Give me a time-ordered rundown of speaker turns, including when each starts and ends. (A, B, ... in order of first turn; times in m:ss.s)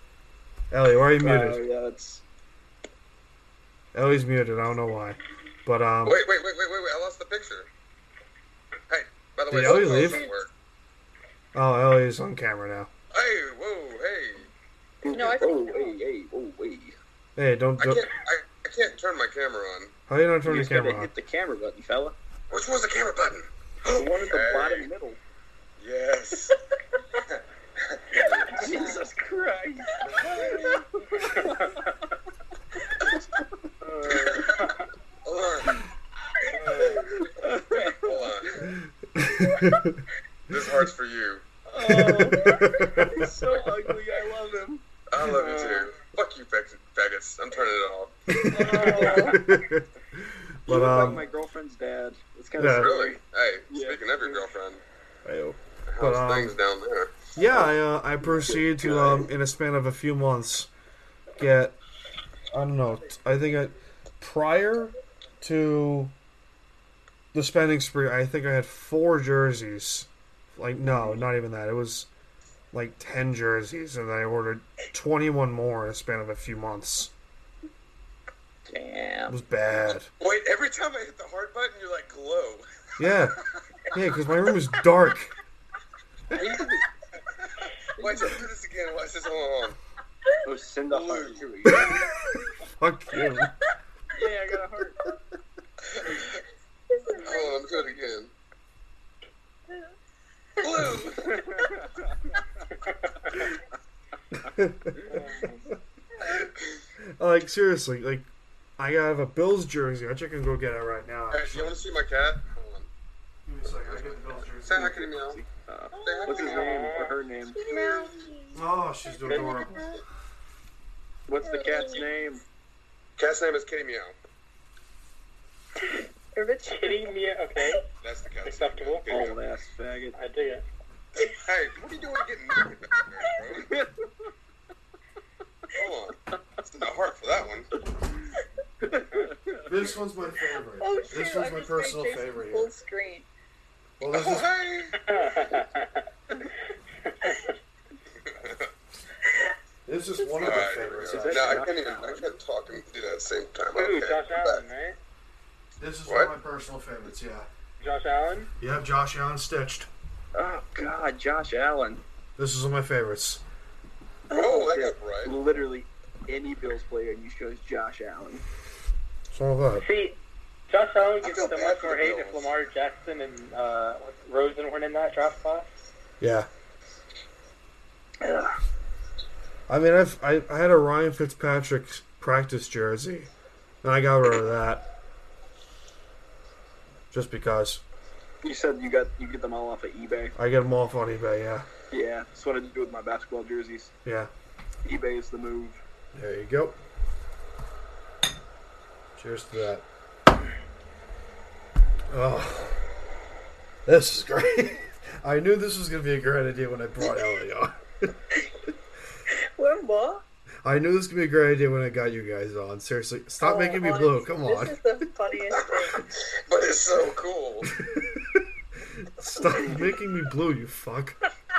0:00.7-0:01.6 A
0:01.2-0:02.2 B
0:03.9-0:06.2 A
0:06.0-0:07.7 C
0:08.9-0:10.5 C
0:09.5-0:10.3 A
0:09.6-0:10.3 D
0:11.5-0:12.9 A
0:13.1-0:14.5 C
0:15.0-0:16.9 B
0:15.1-0:16.0 D
0:17.4-0:18.1 A
0:17.8-0:19.9 C
0:20.1-0:21.1 A
0:20.4-0:22.2 B
0:22.5-0:24.9 C
0:23.8-0:25.2 B
0:25.8-0:26.6 C
0:27.9-0:28.7 C
0:28.2-0:31.9 B
0:30.0-0:30.7 C
0:31.3-0:31.9 E
0:33.8-0:34.8 E
0:34.1-0:34.6 C
0:35.2-0:35.8 C
0:36.5-0:37.1 E
0:36.7-0:38.6 B
0:37.9-0:38.7 C
0:38.7-0:40.0 A
0:40.5-0:41.4 C
0:41.7-0:44.8 B
0:41.8-0:44.0 A
0:45.1-0:48.4 C
0:45.2-0:45.9 E
0:48.3-0:51.2 A
0:48.4-0:49.5 B
0:48.6-0:49.4 E
0:50.7-0:54.5 B
0:52.6-0:52.9 A
0:52.6-0:54.8 C
0:55.2-0:56.6 A
0:55.9-0:57.2 C
0:57.3-1:00.7 A
0:58.2-0:59.3 B
1:01.4-1:01.8 A
1:02.5-1:06.1 A
1:07.3-1:12.1 A
1:10.8-1:11.2 B
1:12.7-1:17.1 A
1:18.7-1:19.4 B
1:19.3-1:20.1 A
1:20.2-1:22.6 C
1:23.0-1:23.4 A
1:23.9-1:25.3 A
1:26.3-1:26.9 B
1:27.4-1:29.8 C
1:28.0-1:28.3 B
1:30.4-1:32.1 B
1:30.9-1:31.8 C
1:31.7-1:32.0 A
1:32.8-1:33.5 A
1:34.1-1:35.0 B
1:35.9-1:36.4 C
1:36.9-1:37.9 D
1:37.2-1:38.3 C
1:40.6-1:41.6 C
1:41.3-1:42.2 B
1:44.5-1:45.4 A
1:45.0-1:45.6 E
1:47.2-1:51.8 A
1:51.3-1:52.9 C
1:53.4-1:54.9 A
1:53.8-1:55.4 C
1:54.7-1:57.8 B
1:55.9-1:56.8 D
1:56.0-1:56.9 C
1:56.4-1:57.2 E
1:57.5-1:58.6 D
1:58.5-1:59.9 A
1:59.1-1:59.9 D
1:59.3-1:59.6 E
2:01.3-2:02.4 B
2:01.4-2:02.2 D
2:03.2-2:04.1 C
2:06.3-2:07.8 D
2:06.7-2:07.8 E
2:08.0-2:09.4 C
2:08.4-2:09.1 E
2:09.1-2:10.2 B
2:10.1-2:10.6 E
2:11.2-2:13.7 C
2:13.6-2:14.1 B
2:15.7-2:17.7 C
2:18.8-2:19.7 B
2:19.6-2:22.7 A
2:20.8-2:23.3 D
2:24.0-2:24.5 A
2:24.1-2:25.0 C
2:25.0-2:26.0 E
2:27.0-2:27.5 E
2:28.2-2:28.7 C
2:29.8-2:31.7 A
2:30.2-2:30.6 D
2:30.4-2:34.6 C
2:31.0-2:32.3 B
2:33.8-2:35.0 E
2:35.8-2:37.5 A
2:36.1-2:36.3 C
2:37.8-2:38.5 E
2:38.6-2:39.9 A
2:40.3-2:42.0 B
2:42.4-2:43.4 A
2:44.3-2:48.4 B
2:44.3-2:45.4 C
2:49.3-2:49.8 A
2:49.8-2:50.2 E
2:50.7-2:55.7 E
2:51.2-2:52.5 C
2:56.2-2:56.5 A
2:58.2-2:58.5 B
2:59.7-3:03.3 A
3:03.8-3:04.8 A
3:07.1-3:07.8 A
3:08.4-3:10.4 B
3:10.4-3:11.7 A
3:11.9-3:13.9 B
3:14.0-3:14.3 A
3:14.8-3:15.8 B
3:16.1-3:16.8 A
3:19.2-3:19.8 A
3:22.1-3:22.8 A
3:23.8-3:28.2 A
3:29.3-3:30.2 D
3:30.6-3:34.8 A
3:33.4-3:36.0 D
3:35.8-3:37.7 C
3:37.7-3:41.2 A